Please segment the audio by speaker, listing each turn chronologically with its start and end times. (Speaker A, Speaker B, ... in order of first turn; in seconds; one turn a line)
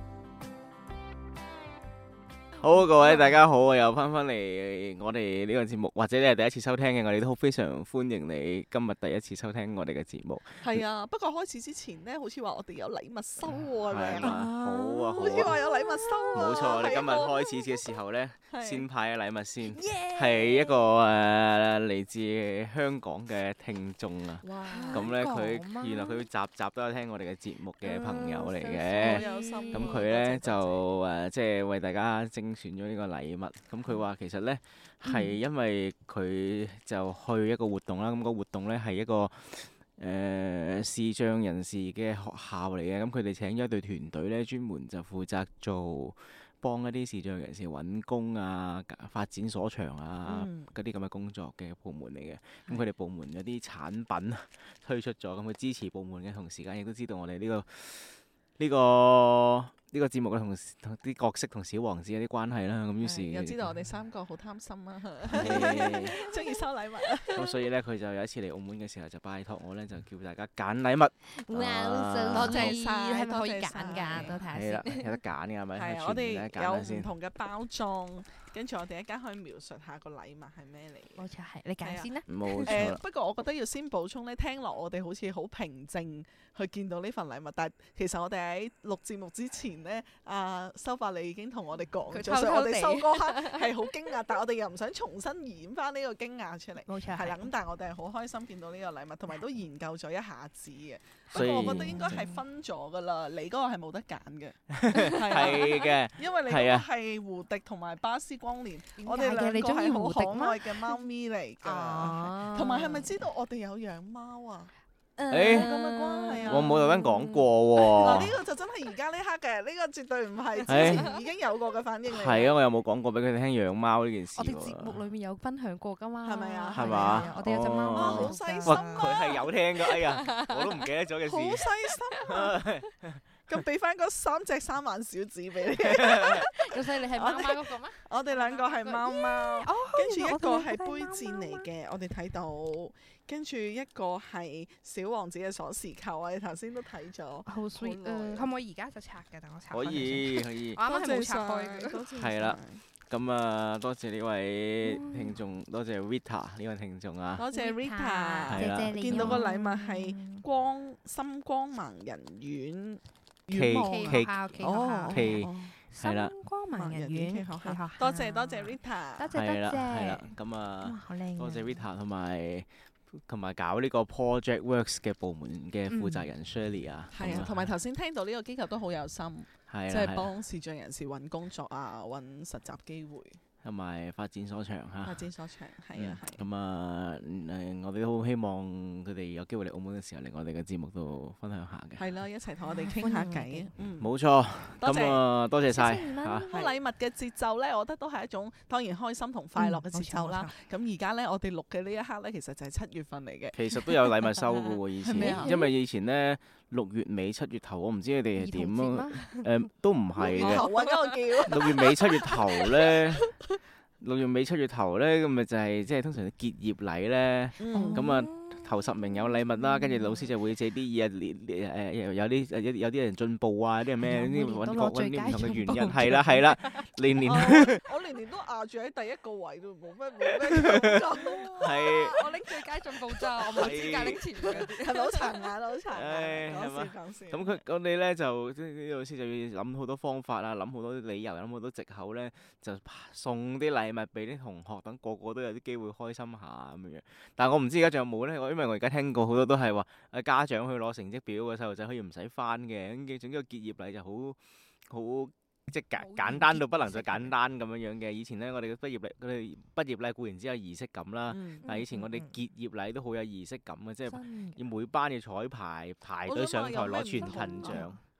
Speaker A: 2.6-10.8
Speaker B: 10.6-14.4
Speaker A: 13.9-15.5
Speaker C: 14.2-16.5
Speaker B: 15.2-17.6
Speaker A: 16.3-63.7
Speaker B: 18.5-18.8
Speaker C: 19.6-20.9
Speaker B: 24.4-25.1
Speaker C: 24.6-26.2
Speaker B: 27.8-30.9
Speaker C: 29.0-30.1
Speaker C: 35.0-35.4
Speaker B: 50.2-50.7
Speaker B: 63.0-67.6
Speaker A: 65.3-66.2
Speaker C: 65.4-66.5
Speaker A: 67.3-72.8
Speaker C: 71.3-75.2
Speaker B: 72.3-74.4
Speaker A: 74.1-77.1
Speaker B: 75.8-81.2
Speaker C: 81.2-82.9
Speaker B: 81.8-104.6
Speaker A: 82.3-83.0
Speaker C: 92.1-93.9
Speaker C: 96.8-97.5
Speaker C: 101.3-102.4
Speaker A: 101.3-102.2
Speaker A: 104.7-106.9
Speaker C: 104.9-105.7
Speaker B: 105.1-114.7
Speaker C: 109.0-111.0
Speaker C: 111.6-113.1
Speaker C: 115.2-118.2
Speaker A: 115.3-115.7
Speaker B: 115.4-116.8
Speaker A: 116.4-118.4
Speaker B: 117.9-122.5
Speaker C: 120.5-121.2
Speaker A: 120.7-121.1
Speaker A: 122.1-125.0
Speaker C: 124.3-129.2
Speaker B: 126.2-127.3
Speaker A: 126.7-131.7
Speaker B: 127.9-129.5
Speaker C: 129.8-130.7
Speaker B: 131.3-132.6
Speaker A: 132.2-133.6
Speaker B: 133.5-148.5
Speaker A: 135.8-136.5
Speaker C: 136.2-141.7
Speaker C: 147.4-152.0
Speaker A: 149.7-150.8
Speaker B: 150.8-152.8
Speaker A: 152.1-157.4
Speaker C: 154.8-155.3
Speaker B: 157.4-165.7
Speaker C: 157.5-160.4
Speaker A: 158.5-159.4
Speaker A: 163.5-164.3
Speaker C: 163.8-171.9
Speaker A: 165.1-166.3
Speaker B: 166.8-169.3
Speaker A: 169.3-177.7
Speaker C: 175.9-176.3
Speaker B: 177.1-183.4
Speaker A: 179.7-180.3
Speaker A: 183.6-185.2
Speaker B: 185.0-186.4
Speaker A: 185.9-192.0
Speaker B: 192.0-194.1
Speaker C: 192.7-193.7
Speaker A: 194.0-196.5
Speaker B: 194.8-195.2
Speaker C: 195.7-196.7
Speaker B: 196.5-203.6
Speaker C: 199.6-200.5
Speaker A: 203.5-210.7
Speaker B: 205.0-205.6
Speaker C: 205.2-205.7
Speaker C: 208.4-209.5
Speaker B: 210.2-213.2
Speaker C: 210.2-211.8
Speaker A: 211.5-213.2
Speaker A: 214.0-227.8
Speaker B: 217.6-218.1
Speaker C: 217.7-220.2
Speaker C: 224.0-226.6
Speaker B: 227.2-237.6
Speaker A: 230.4-231.1
Speaker C: 231.2-235.4
Speaker A: 231.6-232.2
Speaker A: 233.5-234.6
Speaker A: 235.9-268.0
Speaker C: 256.0-257.3
Speaker B: 261.3-261.7
Speaker C: 261.6-262.3
Speaker C: 264.1-264.6
Speaker B: 266.2-267.9
Speaker C: 267.2-268.0